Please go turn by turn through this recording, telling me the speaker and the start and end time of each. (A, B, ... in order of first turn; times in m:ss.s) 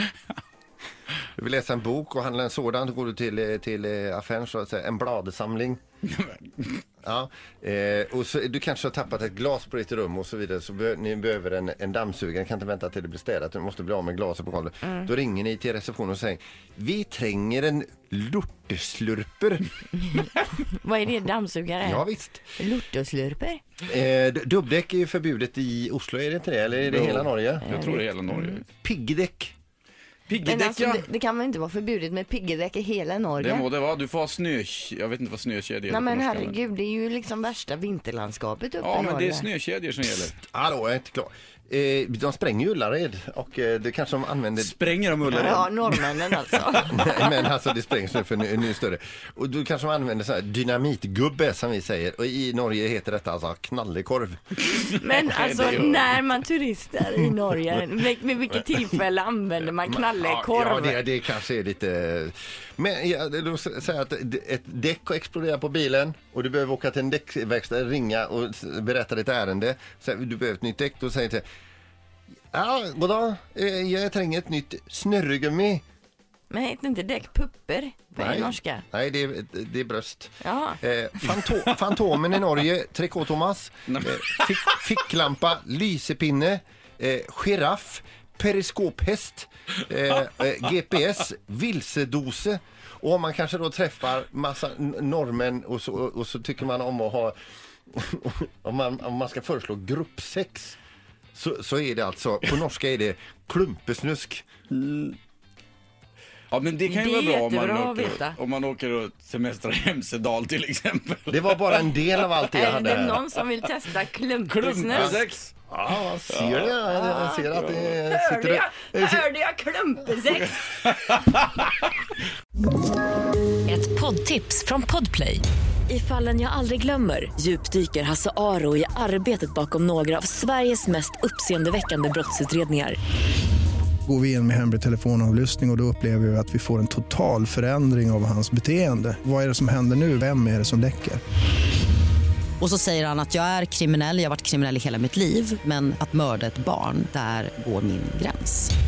0:01.4-0:05.8 A
0:06.2-0:06.6 B
0:07.0-0:19.7 A
0:20.7-0:23.6 C
0:21.8-0:22.4 A
0:23.8-0:27.7 A
0:26.8-0:28.6 B
0:27.8-0:28.0 C
0:28.7-0:29.5 A
0:30.3-0:31.0 B
0:30.4-0:33.6 C
0:33.4-0:36.6 B
0:35.9-0:39.5 C
0:38.8-0:40.4 B
0:40.2-0:44.7 A
0:44.5-0:46.6 B
0:45.3-0:47.0 C
0:46.8-0:54.6 A
0:54.7-0:56.2 B
0:55.0-1:01.0 C
0:59.8-1:11.4 A
1:12.5-1:15.8 A
1:16.5-1:18.8 C
1:18.2-1:37.3 A
1:20.4-1:20.8 C
1:23.9-1:24.7 B
1:37.9-1:40.8 A
1:41.3-1:44.4 A
1:44.8-1:45.1 B
1:46.5-1:51.9 B
1:46.8-1:48.4 C
1:51.3-1:53.2 A
1:52.5-1:55.2 C
1:54.4-1:55.5 B
1:54.9-1:59.2 A
1:56.3-1:56.9 B
1:57.0-1:57.5 C
1:57.5-1:57.9 B
1:58.0-2:00.6 C
2:01.0-2:01.4 B
2:03.6-2:13.0 D
2:14.0-2:21.2 E
2:22.6-2:28.7 F